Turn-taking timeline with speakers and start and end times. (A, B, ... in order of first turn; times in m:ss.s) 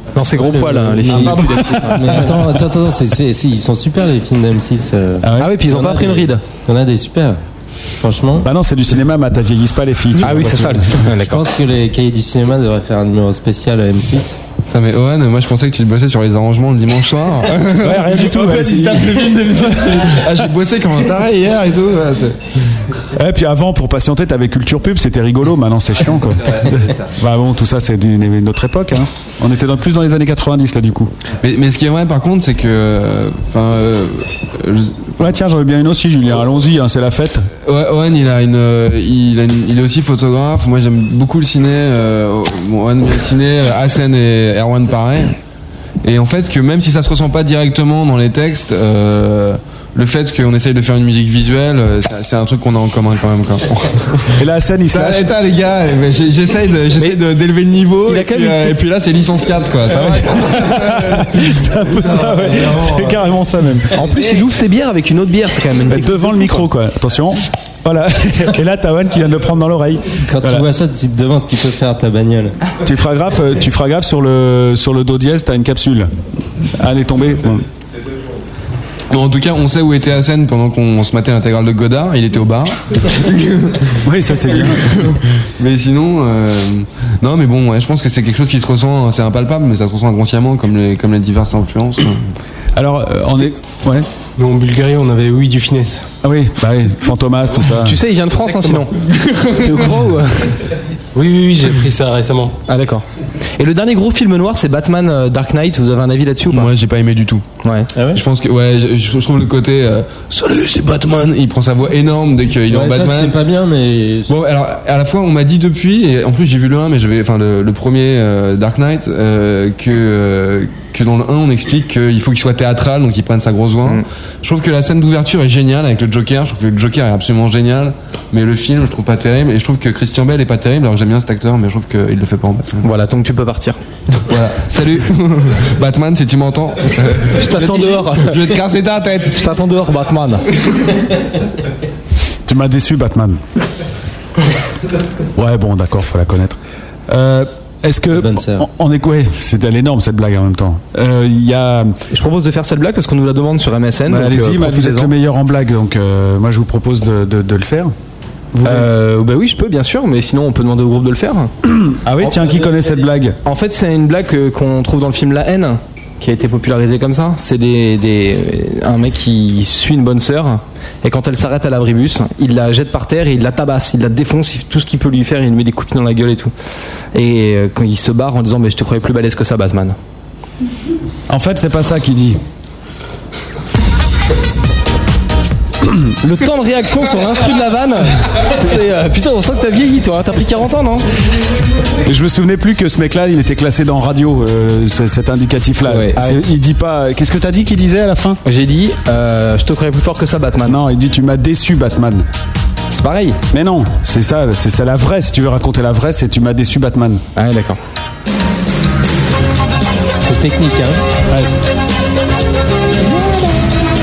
0:00.1-0:02.4 A
0:00.3-0:07.4 B
0:01.1-0:02.4 C
0:05.2-0:05.6 C
0:05.4-0:06.4 A
0:08.0-0:08.5 B
0:08.4-0:11.1 C
0:10.2-0:11.5 A
0:11.2-0:14.4 B
0:14.7-0:22.7 D
0:17.7-0:20.5 C
0:23.1-0:31.1 C
0:31.4-0:35.2 D
0:35.2-0:37.5 C
0:37.6-0:45.3 D
0:46.0-1:01.5 D
0:54.4-0:55.3 C
0:58.1-0:58.8 A
1:00.2-1:04.0 C
1:03.9-1:06.6 A
1:05.9-1:10.7 C
1:10.2-1:12.6 B
1:12.8-1:16.1 C
1:16.7-1:17.6 C
1:19.1-1:24.0 D
1:24.0-1:25.2 C
1:24.6-1:32.2 D
1:32.8-1:34.1 C
1:34.4-1:36.0 E
1:36.2-1:38.0 C
1:37.7-1:38.9 A
1:38.5-1:38.8 E
1:39.3-1:39.6 D
1:39.6-1:40.5 A
1:41.1-1:42.6 E
1:42.7-1:43.0 A
1:43.6-1:46.7 A
1:46.5-1:47.4 D
1:47.6-1:47.9 A
1:47.9-1:48.2 B
1:48.1-1:53.4 D
1:52.7-1:54.3 B
1:54.3-2:12.8 D
2:12.8-2:13.8 A
2:14.1-2:19.4 D
2:17.3-2:18.4 A
2:19.3-2:20.4 A
2:22.4-2:23.4 C
2:25.3-2:32.0 C
2:28.1-2:28.7 B
2:32.1-2:35.1 A
2:34.1-2:37.9 C
2:38.5-2:41.5 A
2:38.6-2:38.9 C
2:41.6-2:43.4 C
2:43.4-2:56.5 A
2:57.1-3:00.0 A
3:01.3-3:02.4 C
3:06.2-3:11.1 A
3:12.0-3:18.4 C
3:15.8-3:16.4 A
3:18.4-3:20.8 A
3:20.6-3:22.3 C
3:22.9-3:23.4 A
3:23.5-3:27.2 C
3:27.4-3:27.8 A
3:30.3-3:30.8 E
3:30.3-3:30.9 B